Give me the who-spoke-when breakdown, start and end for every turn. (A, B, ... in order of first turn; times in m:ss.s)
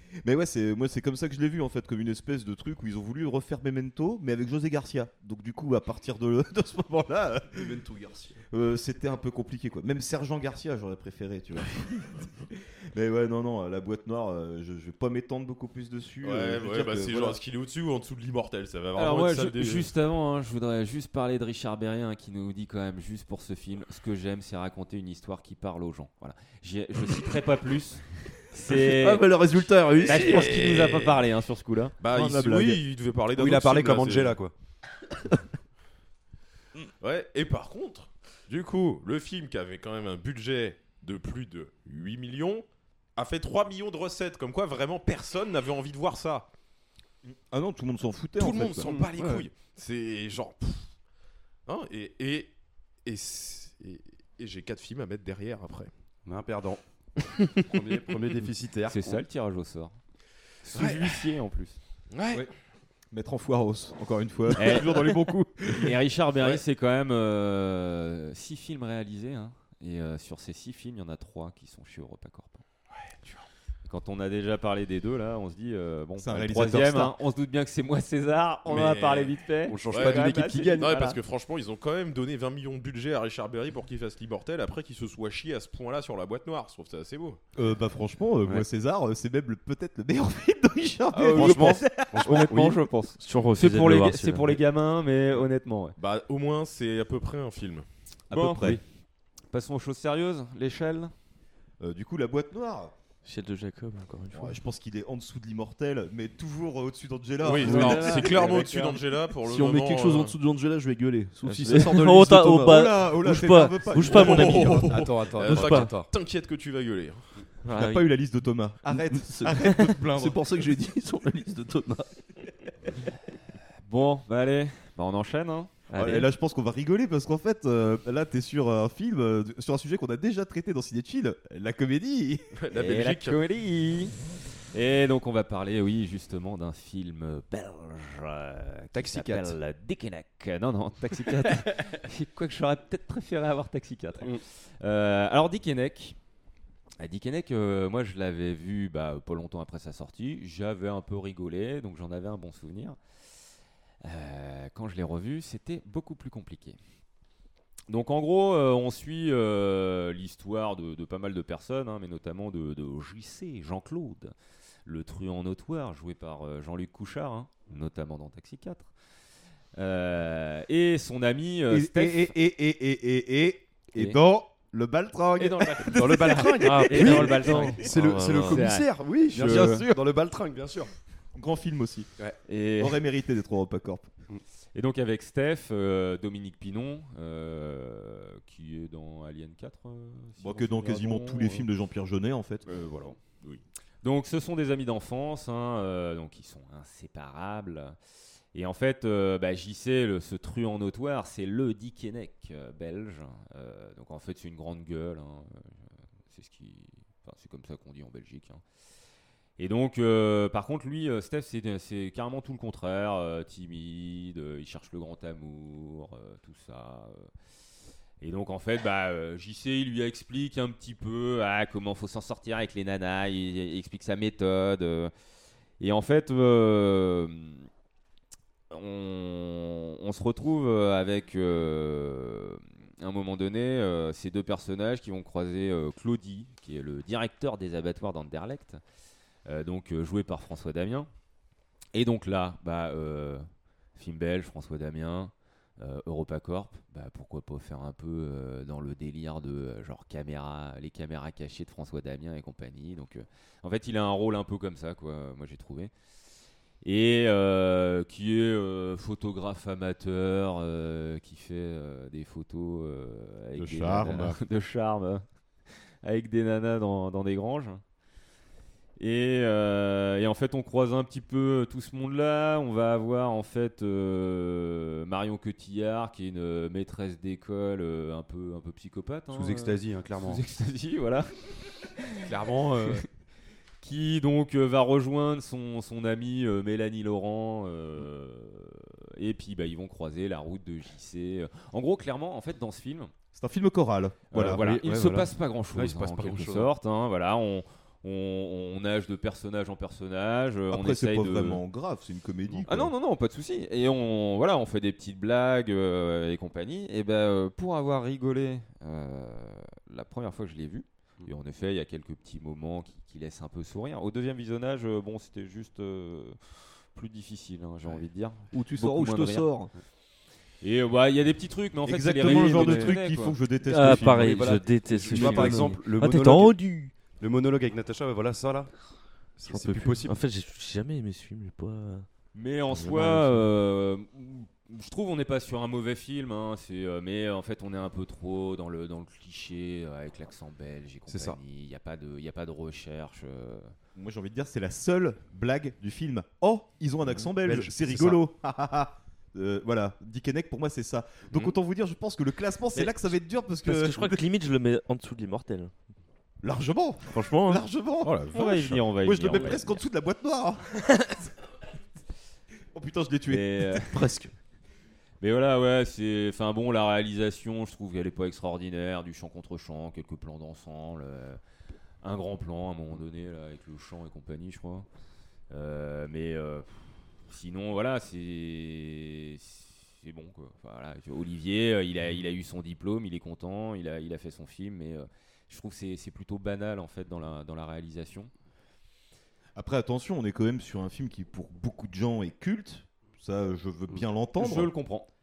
0:00.2-0:07.8 A
0:07.6-0:08.4 B
0:08.5-0:17.4 A
0:16.2-0:19.9 C
0:19.0-0:29.4 D
0:28.7-0:30.6 B
0:30.0-0:31.2 C
0:30.0-0:31.9 D
0:32.0-0:34.4 C
0:32.1-0:32.8 A
0:33.3-0:34.5 E
0:37.0-0:46.5 C
0:47.2-0:48.9 A
0:48.4-0:50.9 C
0:48.8-0:49.5 E
0:51.7-0:55.9 C
0:56.2-0:56.8 E
0:57.7-0:59.2 E
0:58.9-1:00.0 D
1:00.7-1:01.8 D
1:00.7-1:01.2 C
1:02.1-1:02.5 C
1:03.1-1:05.9 A
1:04.6-1:12.6 D
1:13.9-1:21.2 D
1:16.2-1:17.2 A
1:18.7-1:19.4 C
1:19.7-1:20.9 E
1:19.9-1:27.4 C
1:27.6-1:32.5 A
1:31.1-1:36.0 D
1:31.3-1:32.8 E
1:33.2-1:34.6 F
1:36.0-1:37.9 C
1:38.3-1:38.8 A
1:38.3-1:38.8 D
1:39.5-1:41.1 D
1:41.8-1:42.9 A
1:43.2-1:44.6 F
1:44.3-1:48.5 A
1:47.4-1:50.4 C
1:47.6-1:49.0 D
1:49.4-1:52.9 B
1:51.4-1:54.9 F
1:52.6-1:54.9 A
1:54.0-1:57.4 C
1:54.7-1:56.1 E
1:55.6-1:55.9 F
1:57.6-1:58.3 F
1:57.7-2:00.4 A
1:59.1-2:02.1 B
2:03.9-2:06.2 D
2:05.9-2:06.3 F
2:05.9-2:12.5 A
2:12.5-2:13.4 C
2:12.7-2:14.2 D
2:14.7-2:26.2 D
2:18.9-2:19.6 E
2:24.2-2:24.4 E
2:27.0-2:33.0 D
2:34.0-2:36.8 D
2:37.9-2:44.3 D
2:44.8-2:48.9 D
2:49.8-2:52.3 D
2:51.7-2:57.7 A
2:55.4-2:59.9 D
2:55.9-3:00.9 E
2:56.6-2:58.7 F
2:59.3-3:00.1 A
3:01.3-3:02.1 A
3:02.5-3:03.0 D
3:02.8-3:04.1 A
3:04.8-3:11.7 D
3:10.4-3:12.7 A
3:12.7-3:13.2 D
3:14.0-3:18.0 D
3:18.5-3:28.6 D
3:29.6-3:37.3 D
3:38.2-3:45.1 D
3:45.8-3:47.7 D
3:48.7-3:58.8 D
3:59.4-4:01.1 D
4:01.9-4:15.9 D
4:16.8-4:25.3 D
4:23.6-4:24.4 A
4:26.0-4:27.8 D
4:29.0-4:42.2 D
4:39.3-4:40.4 E
4:42.2-4:43.1 E
4:43.8-4:53.1 D
4:53.3-4:54.8 A
4:54.3-5:01.6 D
4:54.4-4:56.7 E
5:00.7-5:02.9 A
5:02.6-5:19.6 D
5:18.5-5:19.7 B
5:20.6-5:23.4 D
5:21.9-5:24.7 A
5:22.2-5:23.0 F
5:23.6-5:26.9 F
5:23.8-5:28.8 E
5:29.4-5:30.2 E
5:29.5-5:32.1 F
5:32.3-5:43.7 D
5:32.7-5:33.5 F
5:41.1-5:41.4 E
5:44.0-5:54.2 A
5:47.4-5:48.2 E
5:52.7-5:55.7 F
5:56.4-5:58.3 A
5:57.1-5:57.6 F
5:58.0-5:59.5 C
5:58.3-5:59.9 D
5:59.0-6:01.3 A
6:02.7-6:04.2 A
6:03.3-6:04.0 D
6:05.2-6:11.4 D
6:12.0-6:14.9 D
6:15.5-6:28.3 D
6:29.6-6:34.7 A
6:34.4-6:35.1 D